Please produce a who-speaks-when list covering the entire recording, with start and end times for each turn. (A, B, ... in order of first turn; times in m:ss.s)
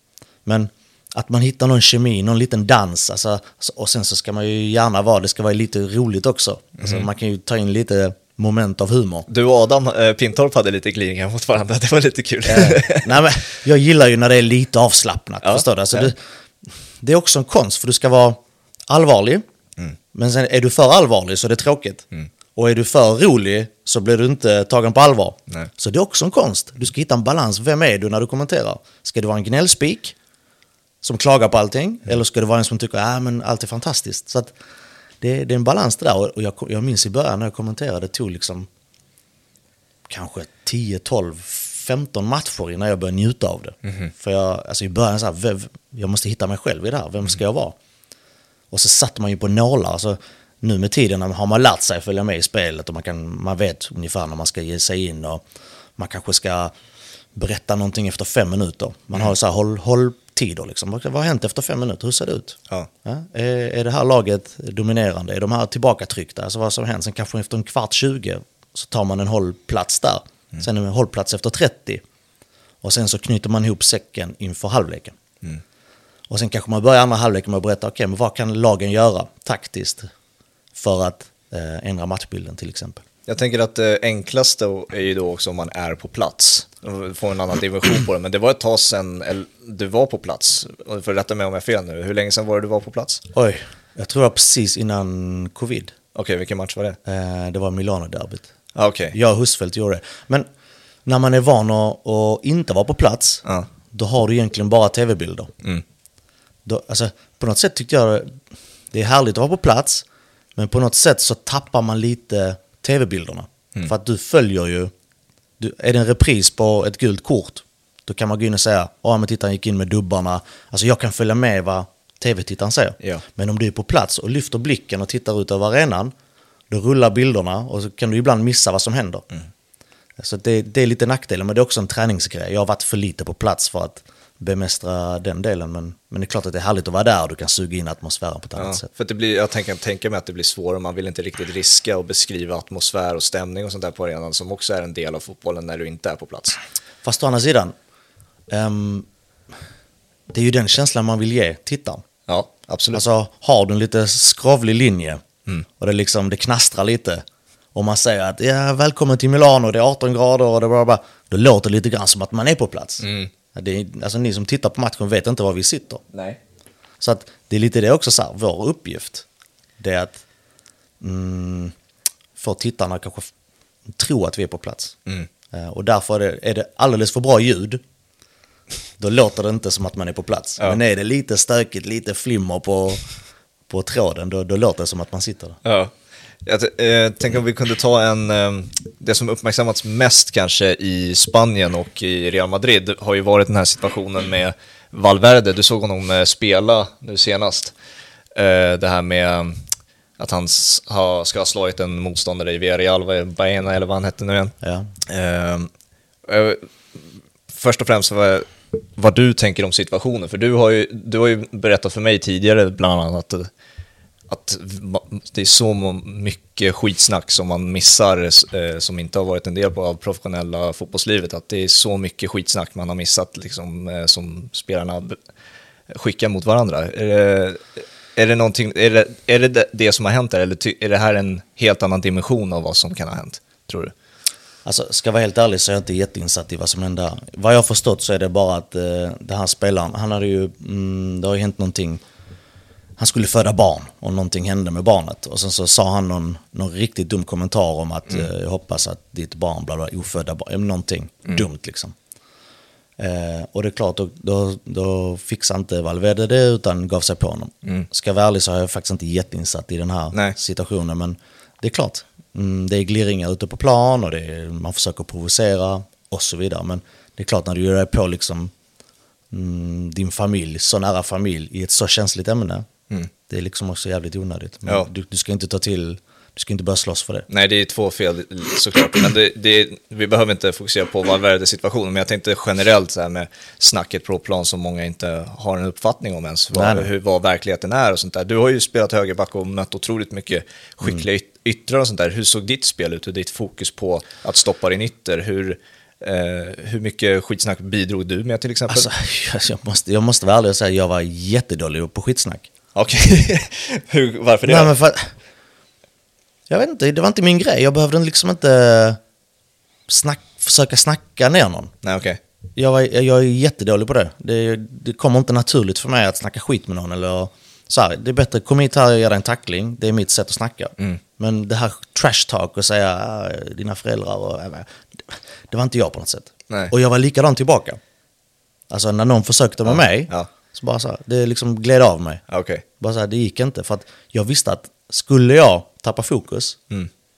0:00.4-0:09.3 A
0:06.8-0:07.1 B
0:09.3-0:13.2 B
0:12.4-0:16.2 A
0:15.4-0:16.1 B
0:17.0-0:19.4 A
0:20.1-0:22.0 A
0:22.6-0:30.2 A
0:31.0-0:34.6 A
0:35.2-0:38.7 A
0:40.1-0:47.8 A
0:43.8-0:44.1 B
0:48.7-0:55.4 A
0:56.0-0:56.7 A
0:57.3-1:12.0 A
1:12.8-1:15.1 A
1:16.3-1:20.1 A
1:20.8-1:23.0 A
1:23.3-1:33.2 B
1:33.3-1:36.0 A
1:36.1-1:37.0 B
1:37.0-1:38.5 A
1:38.8-1:39.2 B
1:39.1-1:40.5 A
1:41.0-1:45.5 A
1:46.6-1:48.4 A
1:48.9-1:54.9 A
1:55.6-2:06.1 A
2:06.7-2:09.2 A
2:10.2-2:18.9 A
2:18.6-2:26.6 B
2:27.0-2:27.7 A
2:28.5-2:29.1 A
2:30.3-2:32.0 A
2:32.3-2:33.0 B
2:32.9-2:35.2 A
2:35.8-2:46.0 A
2:43.0-2:43.3 B
2:46.1-2:46.4 B
2:47.0-2:49.2 A
2:49.8-2:50.2 A
2:51.0-2:51.8 A
2:52.4-2:53.3 A
2:53.9-2:55.0 A
2:55.5-2:57.8 A
2:59.0-3:03.0 A
3:03.7-3:05.6 A
3:05.6-3:05.9 B
3:06.4-3:17.7 B
3:18.4-3:19.7 B
3:20.2-3:25.7 B
3:24.6-3:24.9 A
3:26.3-3:33.5 B
3:34.3-3:45.2 B
3:45.9-3:47.6 B
3:48.2-3:53.9 B
3:54.6-4:02.0 A
4:03.0-4:12.0 A
4:13.0-4:28.5 A
4:29.3-4:32.7 A
4:33.3-4:37.3 A
4:37.3-4:58.9 B
4:46.5-4:46.9 A
4:58.7-5:02.5 A
5:02.8-5:04.7 B
5:04.4-5:05.1 A
5:06.5-5:09.0 A
5:09.9-5:11.7 A
5:11.8-5:12.2 B
5:12.6-5:27.8 A
5:28.7-5:32.2 A
5:32.3-5:32.6 B
5:32.8-5:36.6 A